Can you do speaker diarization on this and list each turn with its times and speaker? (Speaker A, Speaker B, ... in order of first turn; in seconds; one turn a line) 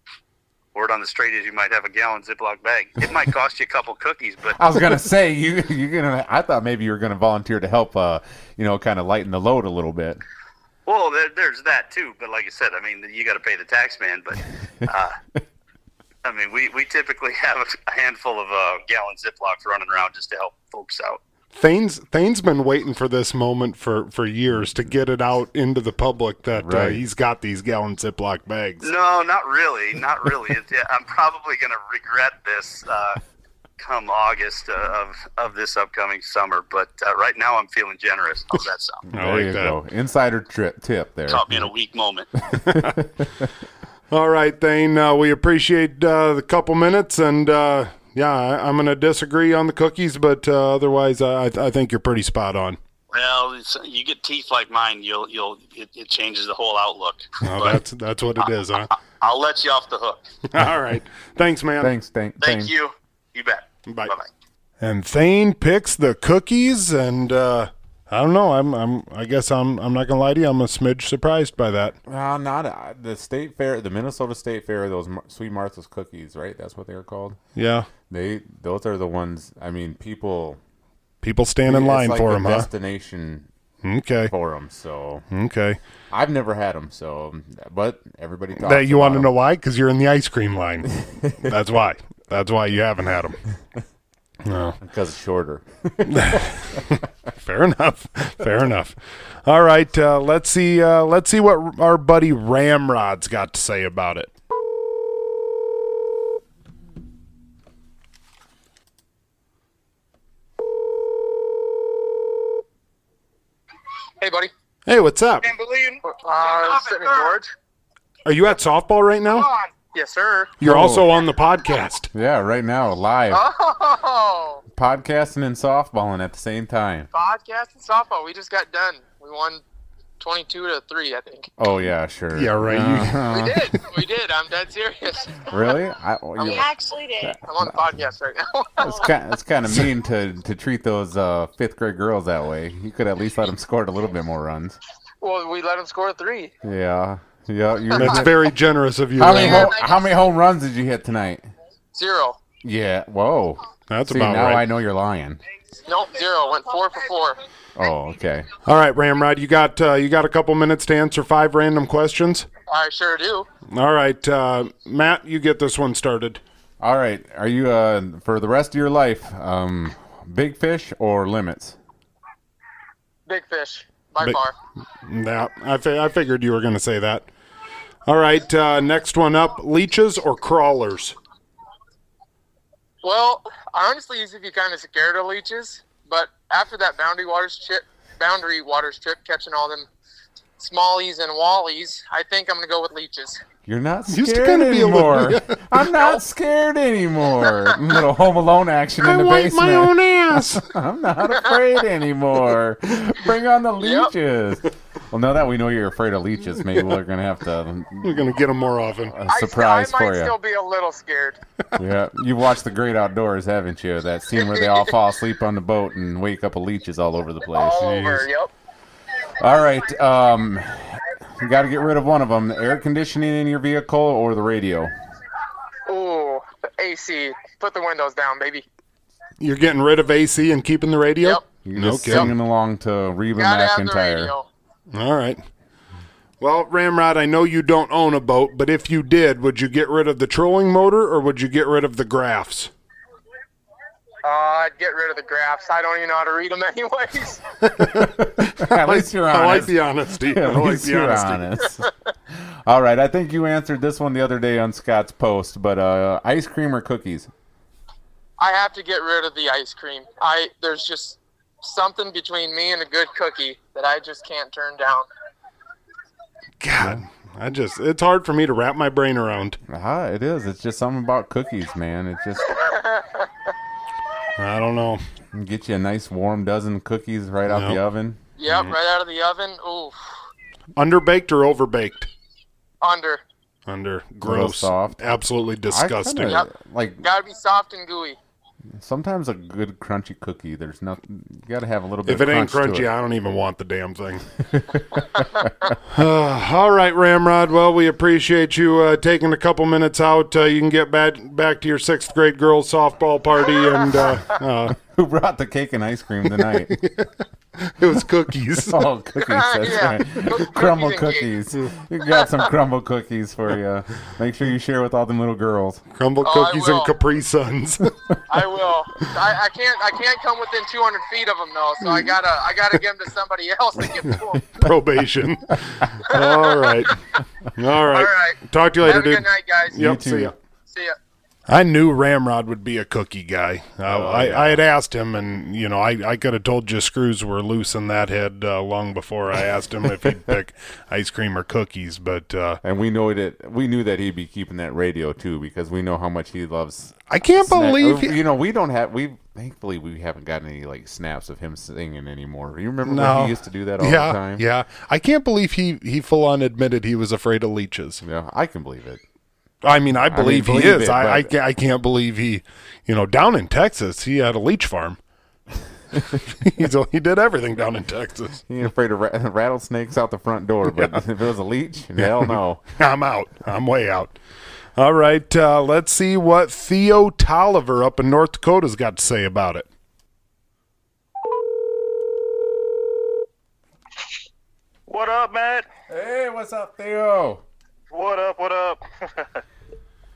Speaker A: 0.8-4.6
Speaker B: 4.6-10.2
Speaker A: 10.9-15.2
Speaker A: 16.2-21.2
Speaker C: 21.5-28.9
Speaker B: 26.6-27.0
Speaker A: 28.8-33.2
Speaker A: 33.8-39.0
Speaker B: 39.1-41.7
Speaker C: 39.1-39.8
Speaker A: 41.3-42.3
Speaker B: 42.5-43.5
Speaker C: 42.7-43.0
Speaker C: 44.1-52.8
Speaker A: 53.1-57.8
Speaker C: 57.4-58.9
Speaker A: 58.9-60.2
Speaker C: 60.5-61.9
Speaker B: 61.8-62.7
Speaker A: 62.4-64.3
Speaker C: 63.9-64.1
Speaker C: 64.8-72.0
Speaker B: 72.1-77.4
Speaker C: 77.5-77.9
Speaker B: 78.1-80.6
Speaker C: 81.2-82.7
Speaker B: 81.7-83.5
Speaker C: 83.8-84.3
Speaker B: 84.3-85.2
Speaker C: 85.3-85.8
Speaker B: 86.1-89.3
Speaker C: 88.6-93.4
Speaker C: 94.5-94.8
Speaker B: 94.8-96.8
Speaker C: 96.0-104.3
Speaker D: 114.2-114.5
Speaker C: 114.9-115.5
Speaker D: 116.0-117.5
Speaker C: 118.3-119.5
Speaker D: 119.9-120.6
Speaker C: 120.6-122.1
Speaker B: 120.6-121.1
Speaker B: 122.1-123.4
Speaker D: 123.3-124.6
Speaker B: 124.7-127.1
Speaker D: 127.1-129.6
Speaker D: 130.2-131.5
Speaker B: 131.6-133.6
Speaker C: 132.3-133.3
Speaker D: 133.3-135.5
Speaker B: 135.5-137.9
Speaker D: 136.4-139.1
Speaker B: 138.8-144.8
Speaker D: 145.2-146.5
Speaker B: 146.6-148.3
Speaker C: 147.9-149.7
Speaker D: 148.0-148.2
Speaker B: 149.2-151.5
Speaker D: 149.2-150.1
Speaker D: 151.9-152.4
Speaker B: 152.6-155.4
Speaker C: 153.9-154.7
Speaker D: 155.9-157.4
Speaker B: 157.8-158.5
Speaker C: 158.7-162.5
Speaker D: 162.7-163.5
Speaker C: 163.7-166.4
Speaker B: 166.8-171.8
Speaker D: 173.3-174.5
Speaker C: 175.0-177.3
Speaker C: 178.1-181.2
Speaker D: 183.0-189.9
Speaker D: 190.6-193.4
Speaker B: 193.7-208.3
Speaker C: 194.1-195.6
Speaker C: 199.0-200.7
Speaker D: 203.8-204.1
Speaker C: 208.0-209.2
Speaker B: 209.1-210.3
Speaker D: 209.3-211.4
Speaker B: 211.8-218.1
Speaker D: 214.4-214.8
Speaker D: 217.5-218.5
Speaker C: 217.8-218.2
Speaker B: 219.4-224.9
Speaker D: 225.9-228.7
Speaker C: 229.4-232.3
Speaker B: 231.7-234.3
Speaker D: 233.4-234.5
Speaker C: 234.9-235.4
Speaker C: 236.4-242.7
Speaker D: 244.2-247.4
Speaker C: 247.7-251.4
Speaker B: 247.8-257.3
Speaker D: 258.4-265.1
Speaker C: 266.6-269.6
Speaker B: 269.7-272.6
Speaker D: 272.5-273.3
Speaker C: 274.4-275.0
Speaker B: 275.3-278.8
Speaker C: 277.5-277.8
Speaker D: 278.4-279.9
Speaker C: 280.8-282.1
Speaker D: 282.8-283.2
Speaker C: 283.7-286.4
Speaker B: 284.2-287.1
Speaker D: 287.0-288.2
Speaker B: 288.8-292.9
Speaker C: 292.1-294.2
Speaker B: 294.5-295.5
Speaker C: 295.9-304.8
Speaker D: 303.9-304.2
Speaker B: 304.7-306.8
Speaker C: 306.3-308.9
Speaker B: 308.6-315.8
Speaker D: 309.2-311.3
Speaker D: 312.0-312.5
Speaker C: 315.9-317.9
Speaker D: 316.2-316.9
Speaker D: 318.3-324.6
Speaker C: 324.6-327.0
Speaker D: 326.1-327.0
Speaker C: 327.6-330.3
Speaker D: 327.9-329.9
Speaker B: 329.7-330.3
Speaker C: 331.5-342.6
Speaker B: 333.8-334.6
Speaker B: 342.6-354.4
Speaker C: 347.1-348.2
Speaker C: 352.9-358.0
Speaker B: 358.0-359.0
Speaker C: 359.6-365.0
Speaker B: 360.1-361.3
Speaker C: 366.3-368.4
Speaker B: 368.5-372.6
Speaker C: 370.7-371.0
Speaker C: 372.0-374.2
Speaker C: 374.8-379.7
Speaker E: 384.9-385.7
Speaker B: 385.9-387.4
Speaker E: 387.9-389.4